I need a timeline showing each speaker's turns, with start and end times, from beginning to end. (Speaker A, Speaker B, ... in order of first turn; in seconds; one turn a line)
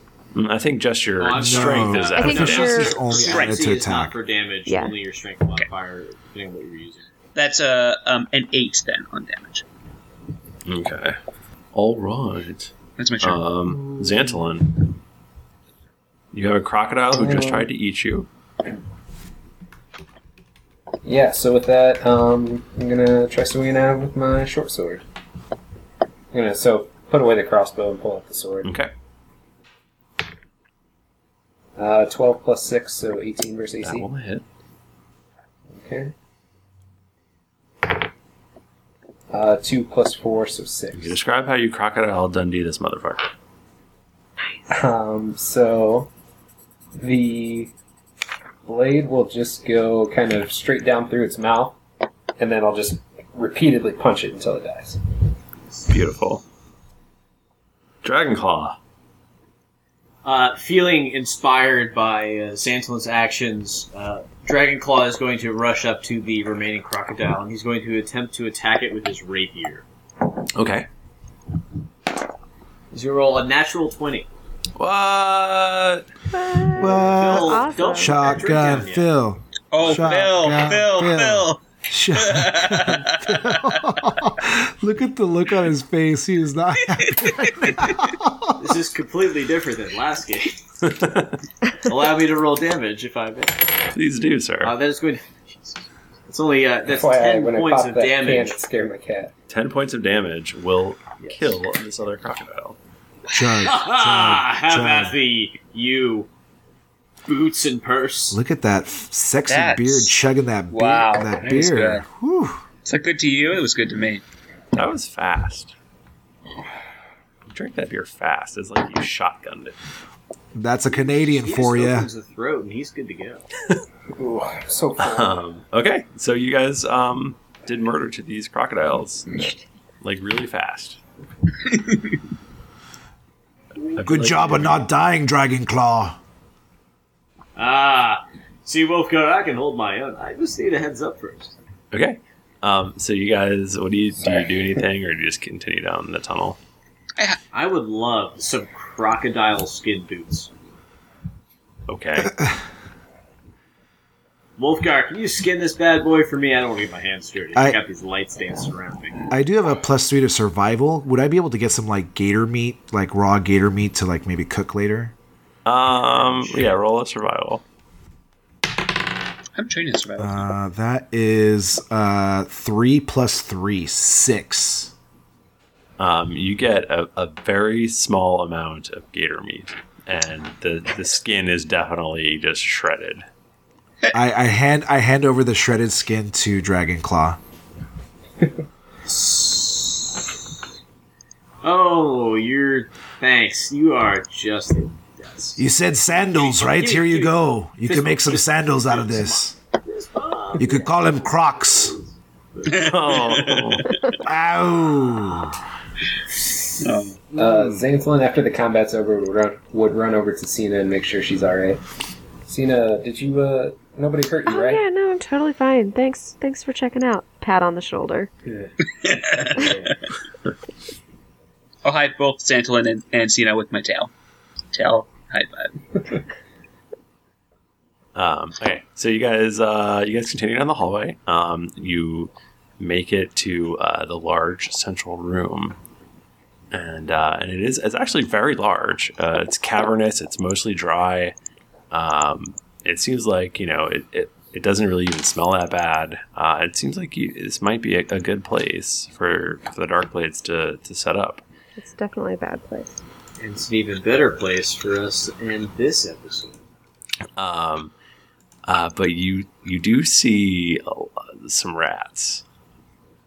Speaker A: 0.3-2.9
Speaker B: 1.2-7.1
Speaker C: 1.4-4.2
Speaker D: 2.1-3.0
Speaker E: 3.1-3.6
Speaker D: 4.7-5.0
Speaker E: 7.3-9.6
Speaker A: 10.7-11.2
Speaker A: 11.7-15.0
Speaker E: 13.0-13.4
Speaker A: 16.3-18.3
Speaker F: 17.1-17.7
Speaker F: 21.1-25.0
Speaker F: 26.3-28.7
Speaker A: 28.6-28.9
Speaker F: 31.8-34.1
Speaker A: 33.8-34.4
Speaker F: 35.8-36.1
Speaker F: 39.3-41.2
Speaker A: 40.9-43.3
Speaker F: 44.7-46.1
Speaker F: 47.0-47.7
Speaker F: 48.7-51.8
Speaker F: 52.4-55.0
Speaker A: 55.9-56.4
Speaker A: 58.0-58.8
Speaker B: 60.2-69.8
Speaker A: 70.4-70.9
Speaker B: 72.9-74.3
Speaker A: 74.8-76.1
Speaker D: 76.3-78.6
Speaker C: 76.8-88.7
Speaker B: 76.8-79.1
Speaker E: 79.7-81.6
Speaker E: 82.2-83.9
Speaker E: 86.9-88.1
Speaker B: 88.6-90.6
Speaker A: 90.8-91.4
Speaker B: 91.8-93.7
Speaker A: 93.9-94.8
Speaker B: 94.6-98.6
Speaker F: 96.9-99.3
Speaker A: 99.5-102.8
Speaker B: 101.2-101.6
Speaker C: 103.3-105.2
Speaker B: 103.6-106.3
Speaker B: 107.3-108.4
Speaker C: 108.3-112.6
Speaker E: 109.5-110.1
Speaker E: 110.7-112.0
Speaker E: 112.9-114.2
Speaker A: 114.7-115.7
Speaker A: 117.5-119.8
Speaker C: 120.5-122.1
Speaker B: 121.0-123.5
Speaker F: 124.2-125.4
Speaker A: 125.0-129.4
Speaker A: 130.0-131.0
Speaker E: 131.7-132.1
Speaker A: 133.9-134.9
Speaker C: 134.0-136.2
Speaker B: 137.6-141.6
Speaker A: 141.9-146.6
Speaker F: 144.2-144.5
Speaker B: 147.5-150.5
Speaker A: 151.9-152.3
Speaker C: 152.2-152.6
Speaker B: 154.6-159.3
Speaker C: 159.3-165.1
Speaker A: 165.6-167.6
Speaker E: 169.6-170.5
Speaker C: 170.2-174.9
Speaker A: 176.0-183.2
Speaker C: 184.1-187.4
Speaker B: 189.1-190.4
Speaker B: 191.6-195.6
Speaker C: 195.6-199.6
Speaker B: 196.3-202.0
Speaker C: 200.6-202.0
Speaker B: 202.6-203.1
Speaker E: 202.7-204.2
Speaker A: 202.8-203.9
Speaker C: 204.2-205.6
Speaker E: 206.8-207.2
Speaker F: 207.3-211.8
Speaker F: 212.4-214.8
Speaker D: 214.5-218.3
Speaker E: 218.9-219.9
Speaker E: 221.8-224.1
Speaker E: 224.7-225.8
Speaker A: 228.1-235.8
Speaker A: 236.7-241.3
Speaker A: 241.9-251.4
Speaker D: 251.8-252.9
Speaker B: 253.4-256.6
Speaker A: 257.4-257.9
Speaker A: 258.7-262.4